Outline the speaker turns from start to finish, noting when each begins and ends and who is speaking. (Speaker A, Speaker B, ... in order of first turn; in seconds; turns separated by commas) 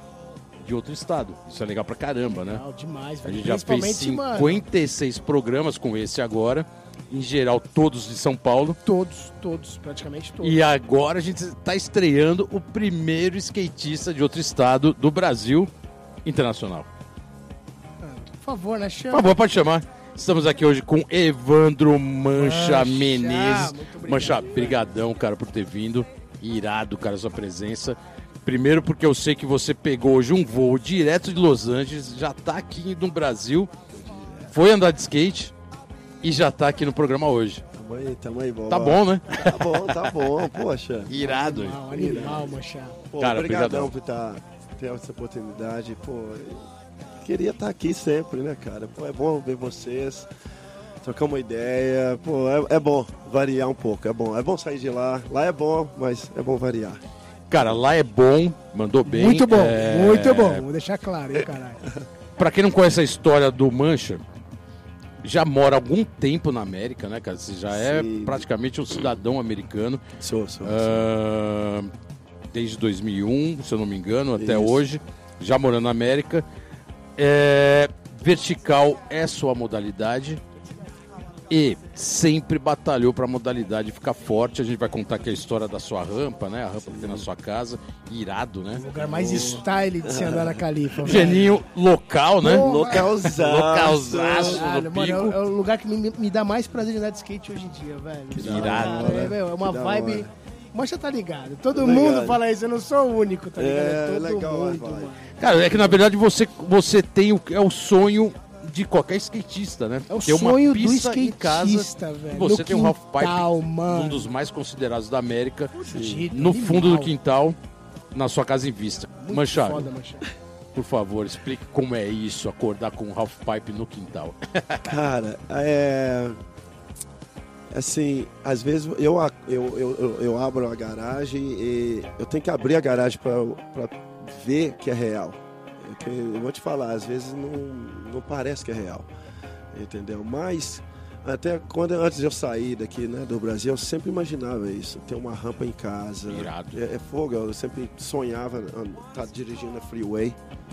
Speaker A: 0.6-2.6, Speaker B: 2.3-4.6, Speaker A: 3.2-8.8, Speaker B: 8.8-10.6, Speaker A: 10.4-15.7, Speaker A: 16.2-16.9, Speaker B: 18.0-19.4, Speaker A: 19.1-33.7, Speaker B: 22.3-24.8, Speaker C: 33.9-34.5, Speaker A: 34.5-35.5, Speaker A: 36.2-37.6, Speaker C: 37.7-41.1, Speaker A: 38.7-40.3, Speaker A: 41.1-42.2, Speaker B: 41.1-43.0, Speaker C: 41.9-42.5, Speaker C: 43.1-46.6, Speaker A: 43.2-43.9, Speaker C: 47.2-50.3, Speaker C: 51.0-57.0, Speaker A: 57.5-60.6, Speaker B: 59.0-61.8, Speaker A: 62.4-64.2, Speaker A: 65.2-70.0, Speaker C: 67.7-68.5, Speaker C: 70.2-71.0, Speaker A: 70.6-71.9, Speaker A: 72.5-76.4, Speaker C: 74.4-74.8, Speaker A: 77.2-80.4, Speaker A: 81.5-89.6, Speaker C: 86.9-87.2, Speaker B: 88.8-91.5, Speaker C: 89.0-91.3, Speaker A: 91.0-95.4, Speaker B: 92.4-93.1, Speaker C: 92.4-94.6, Speaker B: 94.4-105.3, Speaker C: 98.3-100.3, Speaker A: 98.4-99.3, Speaker C: 101.7-102.4, Speaker C: 103.5-106.0, Speaker A: 105.4-115.7, Speaker B: 110.1-114.3, Speaker B: 115.7-117.1, Speaker C: 115.9-116.3, Speaker A: 116.3-117.5, Speaker A: 118.1-119.9, Speaker B: 119.2-120.2, Speaker A: 120.7-125.0, Speaker C: 124.8-126.4, Speaker C: 127.7-139.1, Speaker C: 139.7-150.4, Speaker A: 146.3-146.8